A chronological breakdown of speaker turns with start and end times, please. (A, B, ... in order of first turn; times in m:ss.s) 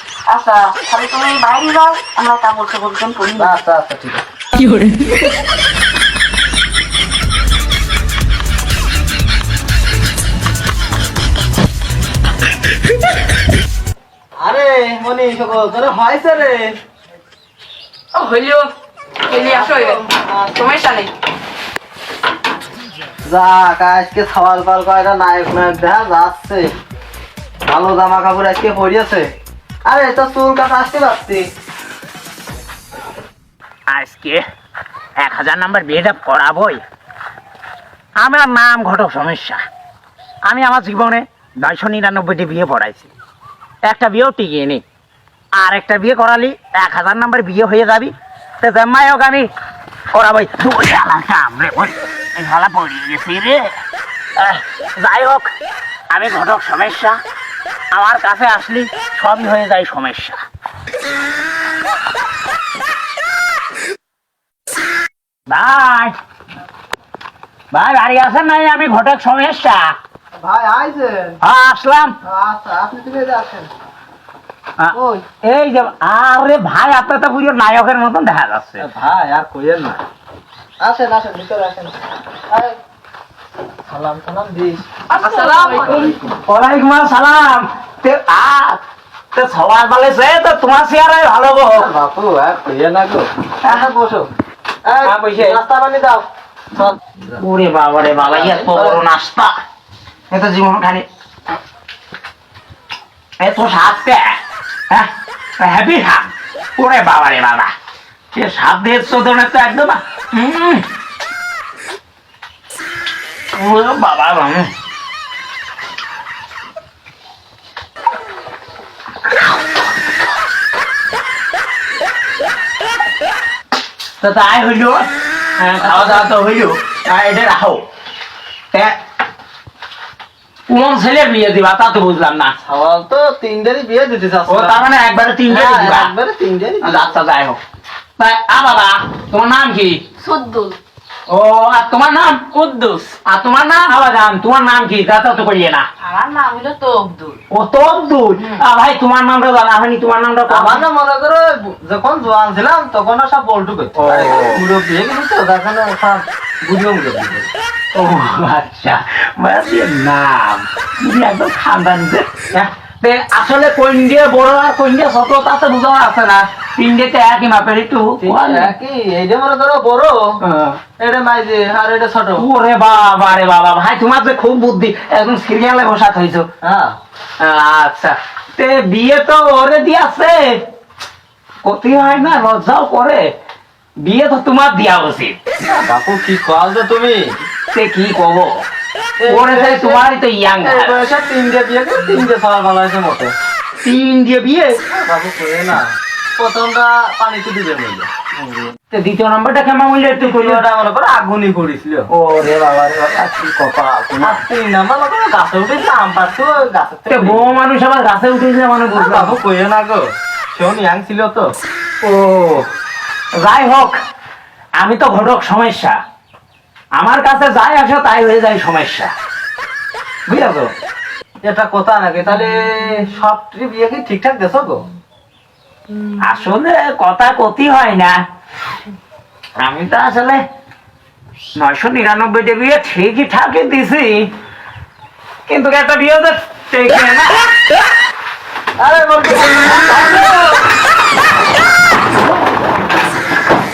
0:00.3-0:03.5 A
0:03.4-0:04.2 B
0:04.5-0:05.3 A
0:14.4-0:16.7 B
0:18.1-0:18.7 A
0:19.2-0:21.1 A
0:19.3-0:20.6 B
0:23.2-0:26.7 B
0:27.6-0:29.3 B
0:29.8-0:31.4 B
0:33.9-0:34.4 C
0:35.2-0:36.8 C
0:38.2-0:39.6 C
0:40.4-0:43.1 C
0:43.8-0:44.8 C
0:45.6-0:49.5 C
0:50.1-0:53.7 C
0:54.4-0:55.5 C
0:56.1-0:57.2 C
0:57.9-1:00.4 C
1:05.5-1:06.2 C
1:07.7-1:10.0 C
1:10.4-1:11.4 B
1:11.4-1:12.2 C
1:12.2-1:13.7 B
1:14.8-1:18.8 C
1:14.9-1:15.2 B
1:18.8-1:20.0 B
1:20.8-1:22.0 B
1:22.5-1:22.8 B
1:23.9-1:26.1 B
1:25.1-1:26.1 A
1:25.8-1:28.8 C
1:29.3-1:31.9 C
1:31.7-1:34.3 B
1:34.8-1:37.0 B
1:35.0-1:35.6 C
1:37.3-1:39.5 C
1:38.2-1:39.0 B
1:40.3-1:41.0 C
1:43.4-1:44.2 C
1:44.9-1:47.7 C
1:48.3-1:50.8 C
1:53.5-1:54.7 C
2:04.2-2:07.8 C
2:10.7-2:12.5 C
2:12.6-2:14.8 B
2:14.5-2:16.1 C
2:15.5-2:17.2 B
2:16.8-2:17.6 C
2:18.2-2:20.0 C
2:20.2-2:20.8 A
2:21.3-2:22.5 C
2:22.5-2:23.2 A
2:23.2-2:25.9 C
2:26.0-2:27.4 A
2:27.5-2:30.8 C
2:30.5-2:37.5 B
2:34.0-2:34.6 C
2:37.9-2:48.7 C
2:48.2-2:50.3 B
2:50.4-2:50.8 C
2:51.0-2:52.5 B
2:52.4-2:56.5 C
2:56.6-2:57.0 B
2:57.4-3:00.6 C
3:01.6-3:03.3 C
3:04.0-3:05.4 C
3:05.6-3:07.4 B
3:07.7-3:08.6 C
3:09.2-3:10.0 B
3:09.2-3:11.0 C
3:10.6-3:13.3 B
3:13.8-3:14.8 C
3:14.8-3:18.5 B
3:18.9-3:20.6 C
3:20.2-3:22.1 B
3:22.1-3:24.4 C
3:24.2-3:27.5 B
3:27.1-3:29.4 C
3:28.9-3:31.5 B
3:32.0-3:32.6 C
3:33.4-3:34.0 C
3:34.8-3:36.0 C
3:37.0-3:39.1 C
3:40.3-3:40.7 C
3:41.4-3:44.8 B
3:46.2-3:48.1 C
3:49.6-3:50.4 C
3:51.6-3:54.3 C
3:55.5-3:57.5 C
3:58.8-4:00.6 B